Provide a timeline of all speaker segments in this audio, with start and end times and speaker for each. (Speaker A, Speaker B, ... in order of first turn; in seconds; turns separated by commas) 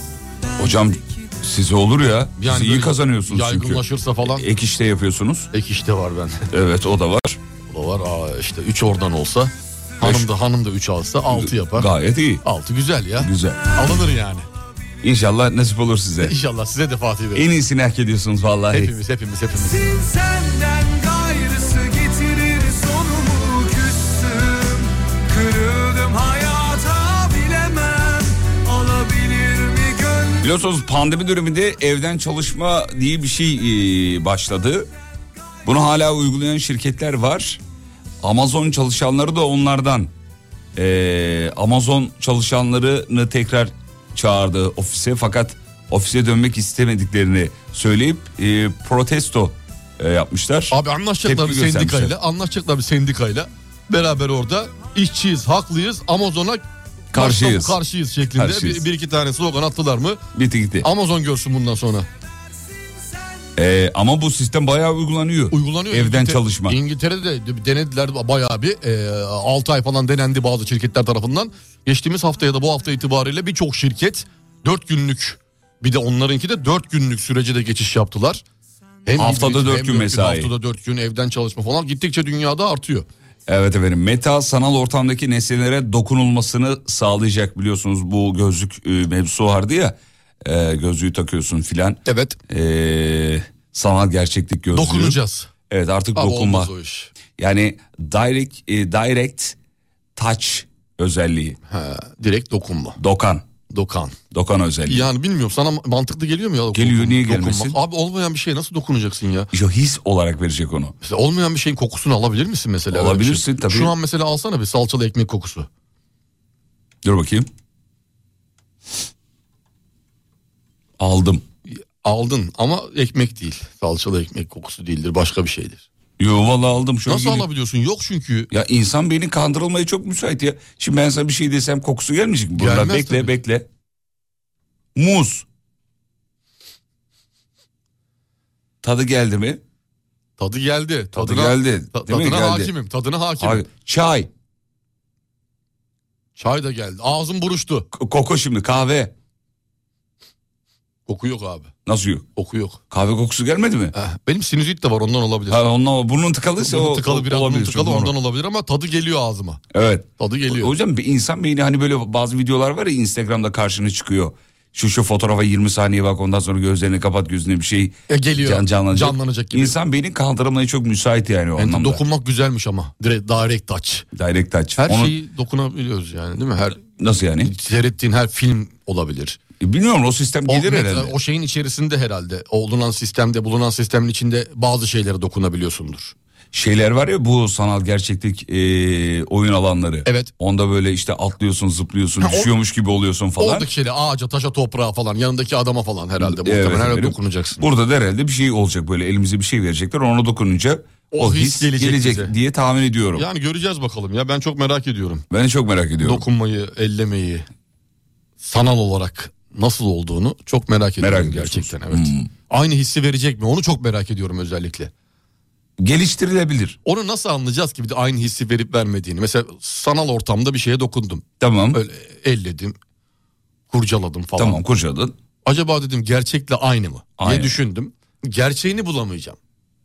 Speaker A: 0.6-5.5, Speaker B: 2.4-4.4, Speaker B: 5.5-6.5, Speaker A: 6.5-7.4, Speaker B: 7.7-11.9, Speaker A: 10.0-10.3, Speaker A: 11.3-12.4, Speaker B: 12.4-14.4, Speaker A: 13.2-13.7, Speaker A: 15.0-16.4, Speaker B: 16.2-17.5, Speaker A: 17.3-18.9, Speaker B: 18.7-19.9, Speaker C: 19.9-30.4, Speaker A: 30.4-34.9, Speaker A: 35.6-37.6, Speaker A: 38.2-40.1, Speaker A: 40.7-52.1, Speaker B: 50.7-60.2, Speaker A: 57.1-57.8, Speaker A: 58.4-58.8, Speaker A: 60.3-60.9, Speaker B: 60.8-62.1, Speaker A: 63.5-66.8, Speaker B: 65.5-78.4, Speaker B: 79.0-83.0, Speaker A: 79.2-80.5, Speaker A: 83.5-95.2, Speaker B: 92.0-92.4, Speaker B: 94.7-95.5, Speaker A: 95.7-96.7, Speaker B: 96.1-97.1, Speaker A: 97.4-99.5, Speaker A: 100.2-101.6, Speaker B: 101.7-103.0, Speaker A: 103.0-103.5, Speaker B: 103.7-104.2, Speaker A: 104.3-105.1, Speaker B: 104.8-109.5, Speaker A: 106.7-107.8, Speaker A: 109.5-111.0, Speaker B: 111.0-115.7, Speaker A: 112.9-113.9, Speaker A: 117.0-117.5, Speaker A: 121.0-121.4, Speaker B: 121.7-125.8, Speaker A: 126.2-127.5, Speaker B: 127.0-128.5, Speaker A: 128.5-133.7, Speaker B: 132.6-133.3, Speaker A: 134.9-135.4, Speaker A: 138.8-139.6, Speaker B: 140.4-143.6, Speaker A: 141.1-142.7, Speaker A: 143.4-144.3, Speaker B: 146.4-147.9, Speaker A: 147.9-149.1, Speaker B: 151.1-151.7, Speaker A: 151.8-152.2, Speaker B: 152.3-152.8, Speaker A: 152.9-153.9, Speaker B: 153.9-155.6, Speaker A: 155.5-158.1, Speaker B: 156.6-159.6, Speaker A: 159.7-172.0, Speaker B: 160.2-160.7, Speaker B: 168.1-169.7, Speaker B: 171.6-174.1, Speaker A: 174.1-175.1, Speaker B: 174.8-176.8, Speaker A: 176.9-177.5, Speaker B: 177.4-179.4, Speaker A: 179.6-181.1, Speaker B: 180.5-186.1, Speaker A: 186.5-193.7, Speaker B: 190.0-190.3, Speaker B: 192.2-192.5, Speaker B: 193.4-197.6, Speaker A: 196.2-203.3, Speaker B: 201.1-202.3, Speaker B: 203.1-205.2, Speaker A: 205.3-206.2, Speaker B: 206.0-207.4, Speaker B: 208.4-214.9, Speaker A: 211.0-212.3, Speaker A: 215.8-216.8, Speaker B: 216.8-222.8, Speaker A: 221.4-221.8, Speaker B: 223.7-224.6, Speaker A: 224.4-225.1, Speaker B: 225.4-229.4, Speaker A: 227.2-227.6